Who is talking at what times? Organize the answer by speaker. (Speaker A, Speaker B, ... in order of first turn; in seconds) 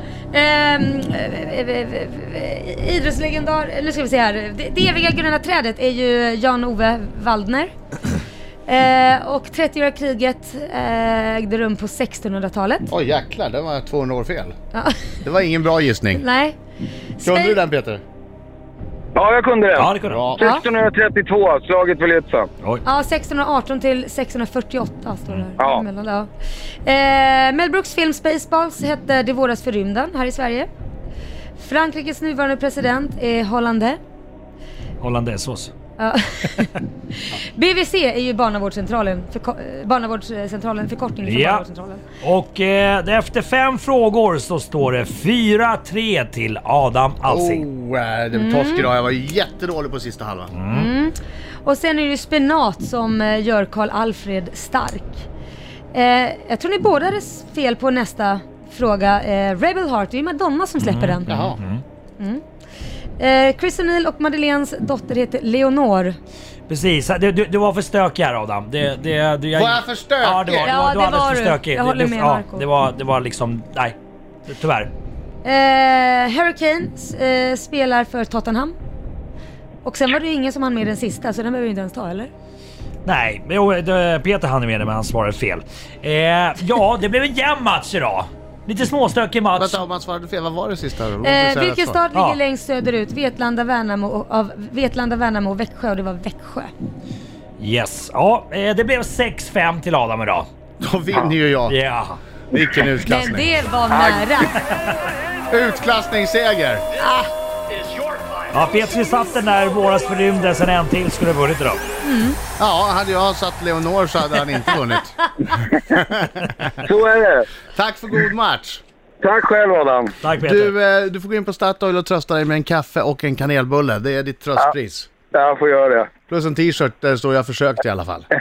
Speaker A: 0.3-7.7, 8.7-12.9, 14.7-15.0, 16.1-16.6, 17.2-17.6, 20.4-20.6, 22.8-26.3, 26.8-30.7, 31.6-34.0, 36.0-42.0, 48.3-48.9, 50.7-55.2, 55.9-61.3, 63.2-66.1, 70.6-72.7, 75.4-78.8, 79.8-82.3, 91.2-96.7, 103.0-104.6, 107.0-107.3, 112.0-112.4
Speaker B: 12.9-14.5, 15.2-16.2, 17.2-18.0, 20.1-20.4, 47.2-50.5, 61.3-61.6, 69.5-70.8, 89.5-92.0, 100.8-101.8, 102.5-103.5, 105.5-106.8, 112.6-115.1, 115.8-116.8, 117.7-118.8, 120.4-125.1, 126.3-128.3
Speaker C: 19.1-22.5, 25.6-25.8, 103.9-104.3, 116.8-117.5, 119.2-120.1, 125.3-126.1
Speaker D: 19.7-20.3, 35.0-35.7, 41.2-41.6, 42.2-47.6, 50.5-50.9, 60.8-61.8, 66.7-74.9, 83.0-89.8, 92.1-92.4, 97.6-100.5, 101.7-102.2, 108.5-111.8, 120.2-120.7